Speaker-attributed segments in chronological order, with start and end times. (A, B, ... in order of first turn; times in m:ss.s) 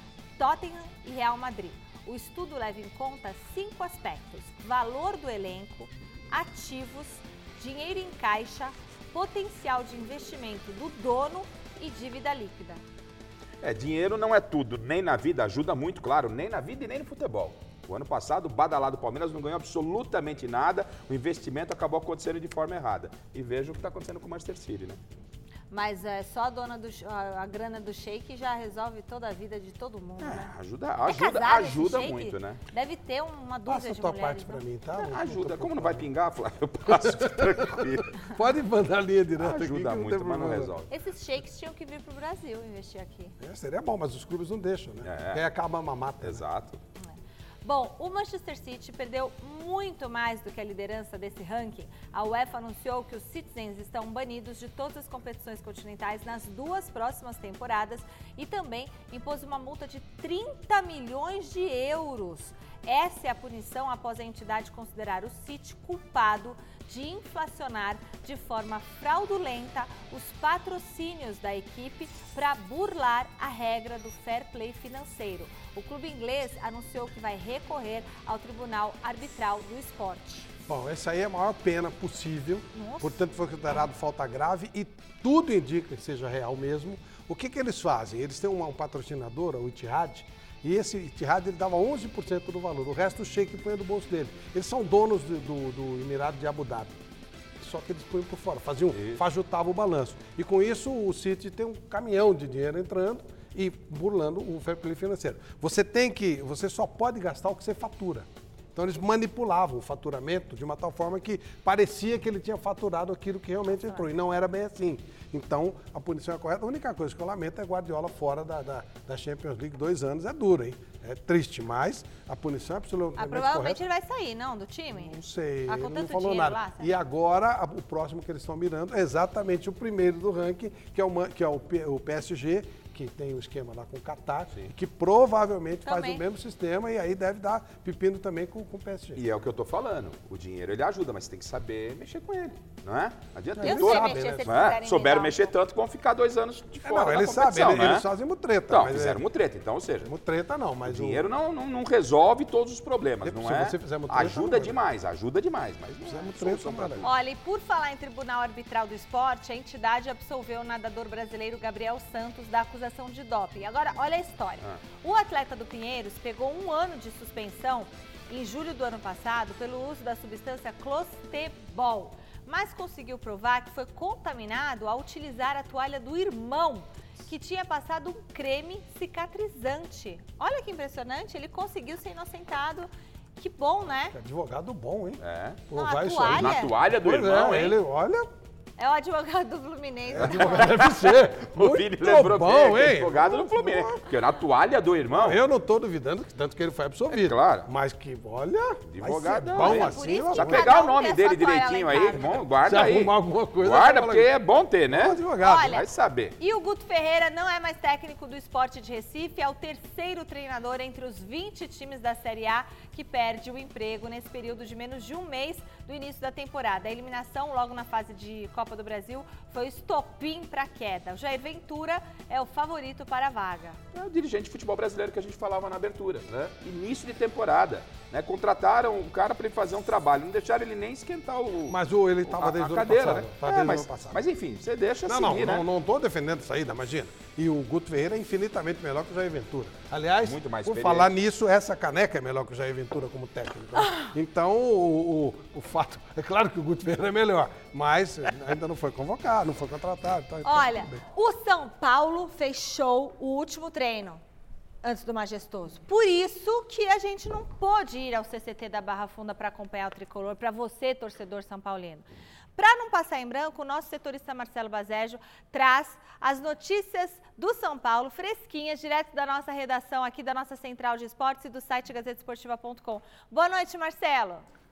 0:00.4-0:12.8 A
0:13.6-0:25.0 B
0:25.7-0:30.5 A
0:30.2-0:32.6 B
0:31.1-0:34.6 A
0:33.7-0:36.1 C
0:35.0-0:38.3 B
0:36.9-0:40.7 C
0:39.4-0:40.9 B
0:40.9-0:43.4 A
0:43.4-0:46.4 C
0:45.0-0:45.4 B
0:46.2-0:46.8 B
0:47.6-1:20.5 A
1:20.7-1:37.0 C
1:22.7-1:23.2 A
1:37.6-2:03.8 C
1:39.0-1:39.2 B
2:03.2-2:06.9 A
2:04.9-2:19.2 C
2:15.8-2:16.2 A
2:19.2-2:28.0 B
2:23.6-2:24.5 C
2:23.6-2:25.5 A
2:26.8-2:29.2 C
2:28.7-2:30.1 B
2:30.0-2:31.3 C
2:30.9-2:37.2 B
2:33.2-2:34.8 C
2:36.1-2:37.1 C
2:37.0-3:04.1 A
3:04.1-3:08.3 C
3:05.2-3:05.6 B
3:05.8-3:06.7 A
3:06.2-3:07.8 B
3:08.8-3:10.8 A
3:10.1-3:14.0 C
3:10.3-3:15.4 B
3:15.1-3:20.7 C
3:17.1-3:17.7 B
3:18.9-3:26.4 B
3:19.6-3:22.4 A
3:22.6-3:24.3 C
3:24.9-3:25.7 C
3:25.4-3:25.9 A
3:26.4-3:43.8 A
3:43.9-3:55.6 B
3:51.7-3:54.2 C
3:55.1-4:11.0 C
4:00.2-4:01.1 B
4:10.4-4:14.2 A
4:14.8-4:22.0 A
4:22.6-4:34.4 A